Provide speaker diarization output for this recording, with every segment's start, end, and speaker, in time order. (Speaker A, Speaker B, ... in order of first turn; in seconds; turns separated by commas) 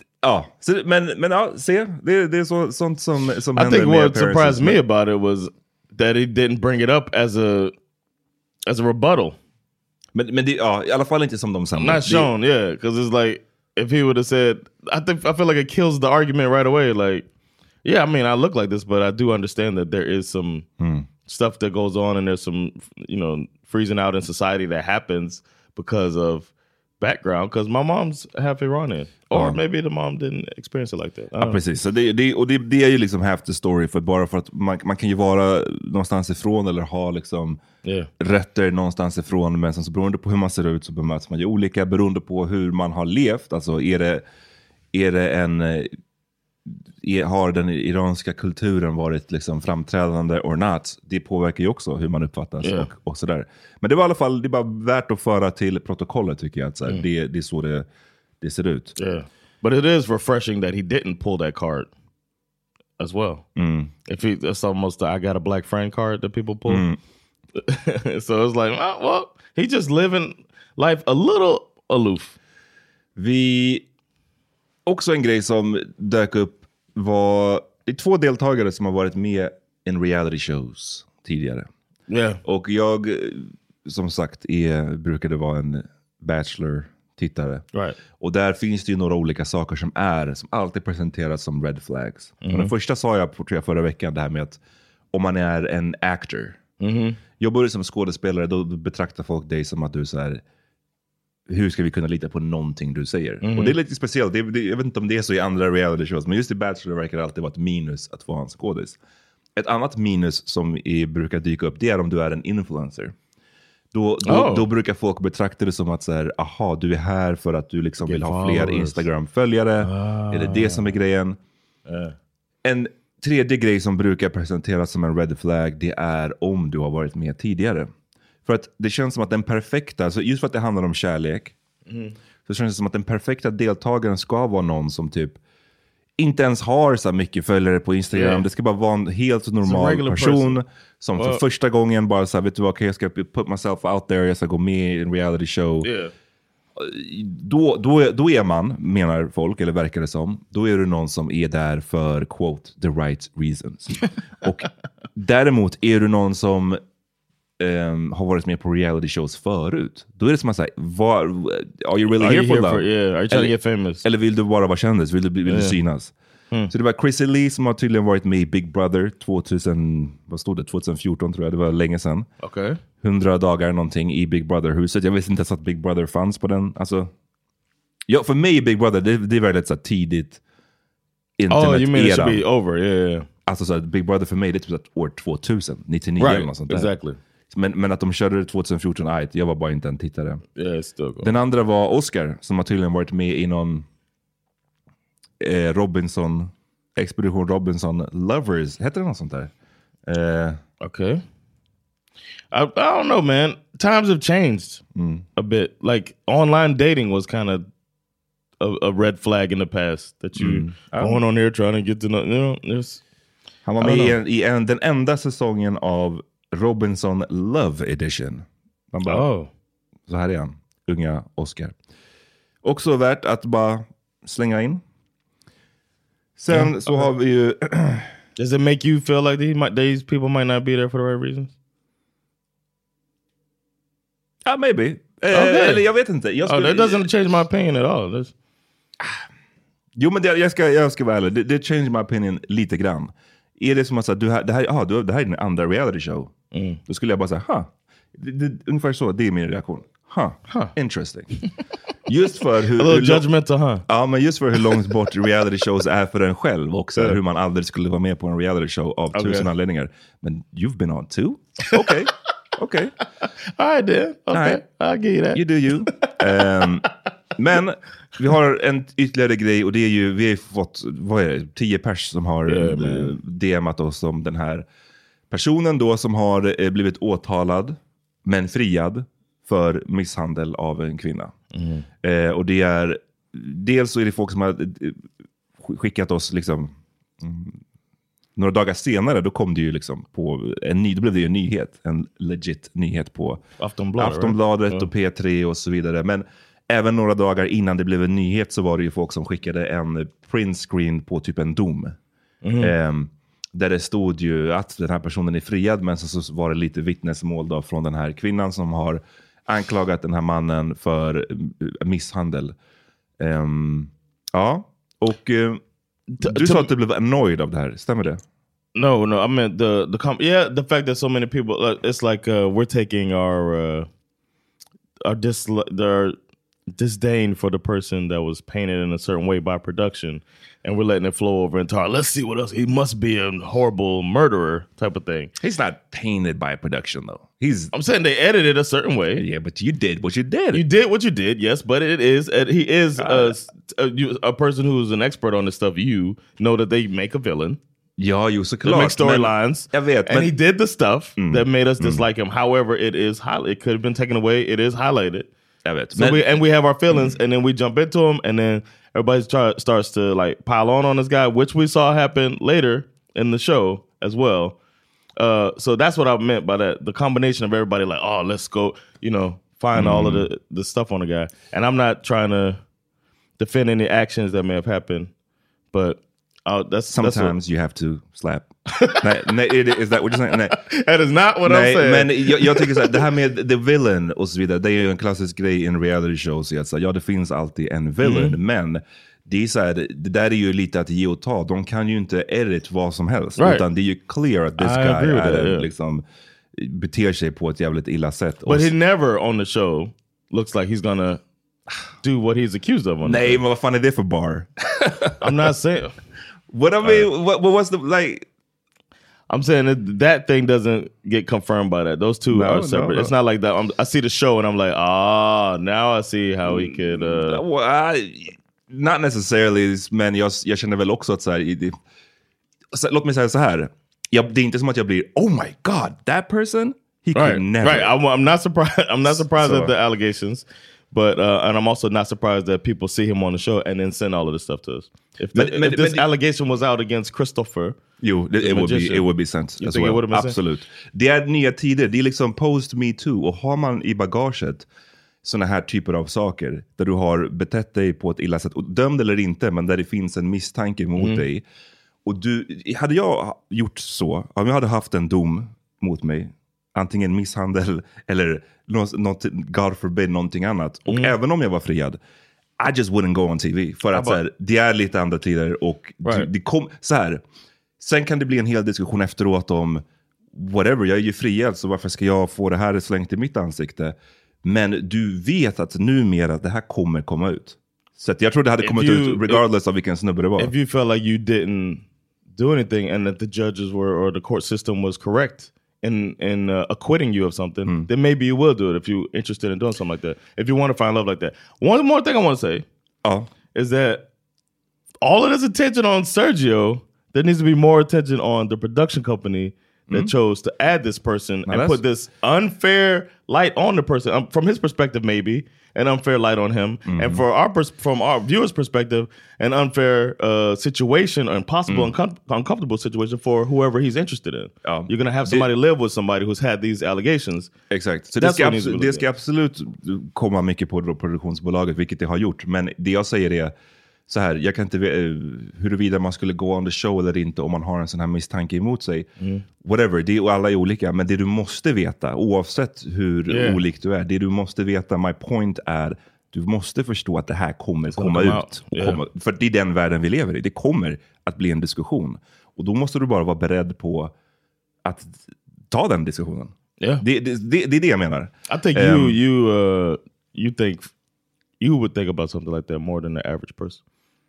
Speaker A: 0.2-4.8, Speaker B: 3.5-7.7, Speaker B: 8.7-9.4, Speaker A: 10.1-12.3, Speaker B: 11.8-17.2, Speaker B: 17.8-20.6, Speaker A: 20.8-21.1, Speaker B: 21.2-31.6, Speaker A: 29.3-29.6, Speaker A: 31.4-37.6, Speaker B: 37.8-38.1, Speaker A: 38.2-44.2, Speaker A: 44.9-45.9, Speaker A: 46.7-57.9, Speaker B: 52.6-52.9, Speaker A: 58.4-58.9, Speaker B: 59.0-61.9, Speaker B: 63.0-63.5, Speaker A: 63.6-63.9, Speaker B: 64.1-66.8, Speaker A: 66.7-67.0, Speaker B: 67.5-72.4, Speaker A: 73.2-73.9, Speaker A: 74.8-81.7, Speaker B: 82.1-82.4, Speaker A: 82.4-87.6, Speaker B: 87.7-88.0, Speaker A: 88.2-94.6, Speaker B: 92.4-92.7, Speaker A: 95.1-96.6, Speaker B: 96.8-97.2, Speaker A: 97.4-100.4, Speaker A: 101.5-109.0, Speaker B: 103.4-103.8, Speaker A: 109.6-113.1, Speaker A: 113.9-121.4, Speaker B: 114.2-114.7, Speaker B: 118.0-119.0, Speaker B: 119.8-121.0, Speaker B: 121.9-122.2, Speaker A: 122.6-127.9, Speaker A: 128.4-131.6, Speaker B: 131.8-132.1, Speaker A: 132.4-135.4, Speaker A: 136.2-145.9, Speaker B: 138.1-138.4, Speaker B: 139.6-140.6, Speaker B: 141.2-141.4, Speaker B: 145.8-146.1, Speaker A: 146.8-156.8, Speaker A: 157.6-166.1, Speaker B: 162.2-164.1, Speaker B: 165.5-165.8, Speaker A: 166.7-172.3, Speaker B: 172.4-172.8, Speaker A: 173.0-177.1, Speaker A: 178.1-180.4, Speaker A: 181.4-182.4, Speaker B: 181.5-183.3, Speaker A: 183.4-186.9, Speaker B: 186.2-187.2, Speaker A: 187.5-190.4, Speaker B: 190.6-191.3, Speaker A: 191.2-193.8, Speaker A: 195.4-199.5, Speaker A: 200.1-200.6, Speaker B: 200.8-201.2, Speaker B: 202.5-204.8, Speaker A: 204.9-205.2, Speaker B: 205.3-207.7, Speaker B: 208.6-213.0, Speaker A: 210.4-211.2, Speaker A: 213.6-219.2, Speaker B: 213.8-214.2, Speaker B: 219.1-219.5, Speaker A: 220.1-221.8, Speaker A: 222.6-224.8, Speaker A: 226.4-228.1, Speaker B: 226.5-227.1, Speaker B: 228.4-231.5, Speaker A: 234.4-237.0, Speaker B: 235.3-235.8, Speaker B: 236.4-238.3, Speaker A: 239.9-246.3, Speaker B: 246.5-246.8, Speaker A: 246.8-251.3, Speaker B: 250.5-250.7, Speaker A: 252.1-253.2, Speaker B: 252.8-253.8, Speaker A: 253.9-262.9, Speaker B: 259.1-259.5, Speaker B: 263.6-265.4, Speaker A: 264.3-264.6, Speaker A: 265.3-274.6, Speaker B: 272.5-273.2, Speaker A: 275.3-281.4, Speaker B: 281.5-281.9, Speaker A: 282.0-287.6, Speaker A: 288.4-293.4, Speaker B: 293.6-294.9, Speaker A: 294.0-302.0, Speaker B: 302.4-302.7, Speaker A: 302.6-312.6, Speaker A: 313.2-315.6, Speaker B: 316.1-316.7, Speaker A: 316.2-318.2, Speaker B: 318.7-323.9, Speaker B: 325.0-326.2, Speaker B: 326.7-335.3, Speaker A: 335.4-337.7, Speaker B: 337.7-339.2, Speaker A: 339.1-340.6, Speaker B: 340.5-347.6, Speaker A: 343.0-343.4, Speaker A: 348.0-350.3, Speaker B: 348.6-355.3, Speaker A: 351.2-352.1, Speaker A: 355.6-357.2, Speaker B: 355.9-364.6, Speaker B: 365.2-372.6, Speaker A: 369.7-370.3, Speaker B: 373.4-375.1, Speaker B: 375.7-377.3, Speaker A: 376.9-380.6, Speaker B: 380.5-383.0, Speaker A: 381.4-398.7, Speaker B: 388.0-388.4, Speaker B: 393.4-393.7, Speaker B: 394.6-395.7, Speaker B: 398.5-401.2, Speaker B: 402.0-403.4, Speaker A: 403.0-405.1, Speaker B: 405.2-406.0, Speaker A: 406.5-408.3, Speaker B: 409.3-417.4, Speaker A: 412.3-413.1, Speaker A: 416.4-421.8, Speaker A: 422.7-427.9, Speaker B: 427.1-437.8, Speaker A: 429.1-429.7, Speaker A: 435.3-436.1, Speaker A: 438.0-444.7, Speaker B: 438.4-440.4, Speaker A: 445.2-451.4, Speaker B: 451.0-451.2, Speaker A: 452.1-462.0, Speaker B: 460.9-461.1, Speaker A: 462.6-467.2, Speaker B: 463.9-464.2, Speaker B: 466.0-466.3, Speaker A: 467.8-480.5, Speaker B: 478.6-479.4, Speaker B: 480.4-492.6, Speaker A: 493.0-493.3, Speaker B: 493.5-494.1, Speaker B: 495.0-517.5, Speaker A: 501.5-501.8, Speaker A: 506.9-507.2, Speaker A: 511.7-511.9, Speaker A: 514.6-515.5, Speaker A: 517.7-523.5, Speaker B: 518.1-519.0, Speaker A: 524.1-529.1, Speaker B: 529.2-529.5, Speaker A: 529.6-544.1, Speaker B: 533.3-533.6, Speaker B: 537.9-539.0, Speaker A: 544.8-549.2, Speaker B: 548.5-550.9, Speaker B: 551.6-553.8